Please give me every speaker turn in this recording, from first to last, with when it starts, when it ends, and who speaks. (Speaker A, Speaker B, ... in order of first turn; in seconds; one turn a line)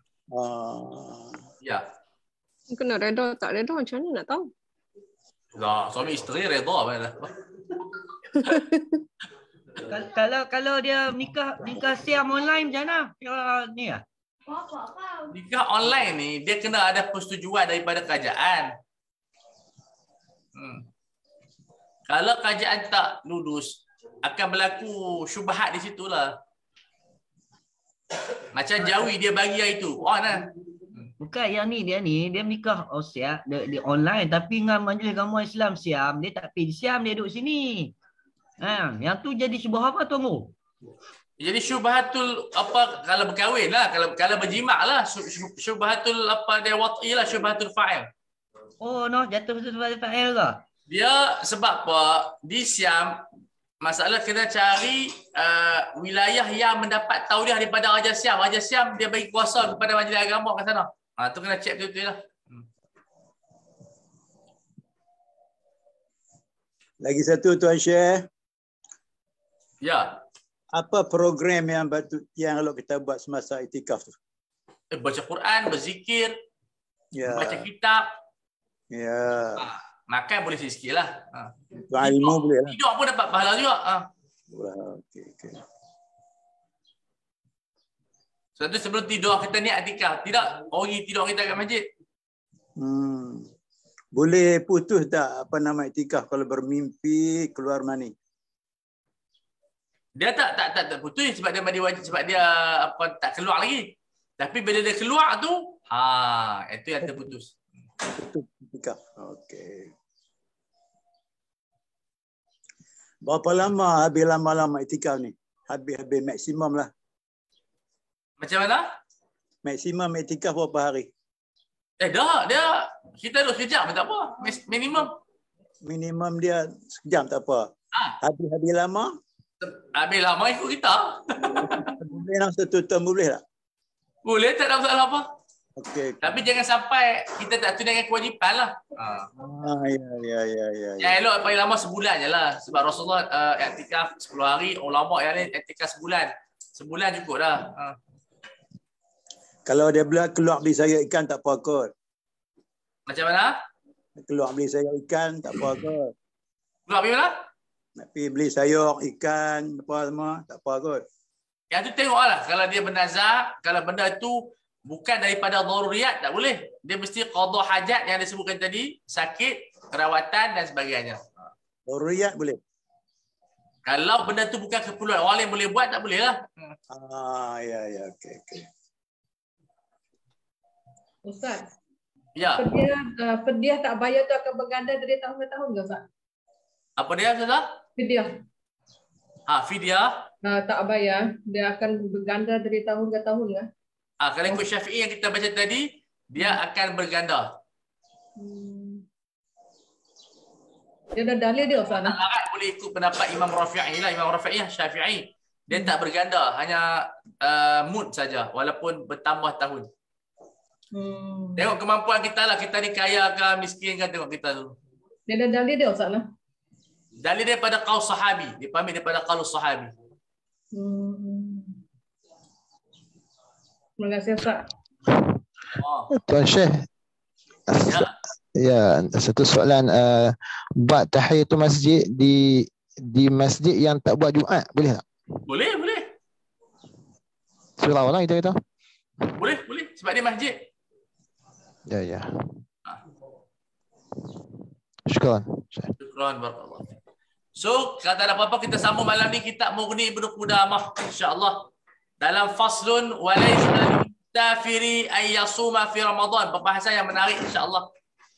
Speaker A: 0.3-1.4
Speaker B: 2.7-4.5
Speaker C: 5.6-7.3
Speaker B: 8.4-8.8
Speaker D: 9.8-14.0
Speaker C: 15.3-18.7
Speaker C: 20.6-20.9
Speaker C: 22.1-26.3
Speaker C: 28.5-31.1
Speaker D: 31.2-37.9
Speaker D: 38.6-40.5
Speaker C: 41.4-48.1
Speaker D: 48.8-50.6
Speaker C: 50.9-53.2
Speaker C: 53.8-62.7
Speaker A: 67.0-68.3
Speaker C: 69.8-70.2
Speaker A: 70.7-74.1
Speaker C: 74.9-76.3
Speaker A: 77.2-77.7
Speaker C: 77.3-78.0
Speaker A: 78.9-79.7
Speaker C: 79.6-84.0
Speaker A: 81.9-82.8
Speaker A: 84.5-85.6
Speaker C: 88.6-91.8
Speaker A: 92.8-93.5
Speaker A: 94.1-98.1
Speaker C: 100.2-107.5
Speaker A: 108.1-109.9
Speaker A: 113.2-116.9
Speaker C: 118.4-118.9
Speaker A: 119.7-121.1
Speaker C: 122.0-125.2
Speaker A: 125.8-127.7
Speaker A: 128.2-129.1
Speaker C: 129.6-131.9
Speaker A: 131.5-133.4
Speaker C: 134.2-135.2
Speaker A: 135.8-136.3
Speaker C: 136.2-139.3
Speaker A: 139.4-141.2
Speaker C: 141.0-148.0
Speaker A: 149.7-151.9
Speaker C: 153.1-153.6
Speaker A: 154.2-156.1
Speaker C: 156.9-157.3
Speaker A: 158.0-161.0
Speaker C: 161.7-171.2
Speaker A: 171.9-172.6
Speaker C: 173.9-176.8
Speaker A: 176.9-178.7
Speaker E: 181.2-181.7
Speaker C: 182.4-182.7
Speaker E: 182.6-186.0
Speaker C: 187.0-187.7
Speaker E: 188.0-188.4
Speaker C: 189.5-190.2
Speaker E: 190.4-193.7
Speaker C: 194.2-197.5
Speaker E: 198.4-199.1
Speaker E: 201.2-202.2
Speaker C: 201.9-206.9
Speaker C: 207.4-209.9
Speaker E: 210.9-211.7
Speaker C: 211.6-214.8
Speaker E: 215.3-216.3
Speaker C: 217.2-219.9
Speaker E: 220.7-221.8
Speaker E: 224.0-224.7
Speaker C: 225.7-226.1
Speaker F: 226.1-226.9
Speaker F: 227.7-235.1
Speaker C: 227.9-228.1
Speaker C: 235.5-236.1
Speaker F: 237.8-238.6
Speaker C: 239.4-240.7
Speaker F: 241.9-242.3
Speaker F: 245.1-245.9
Speaker C: 246.0-246.9
Speaker C: 247.6-251.7
Speaker C: 252.2-257.9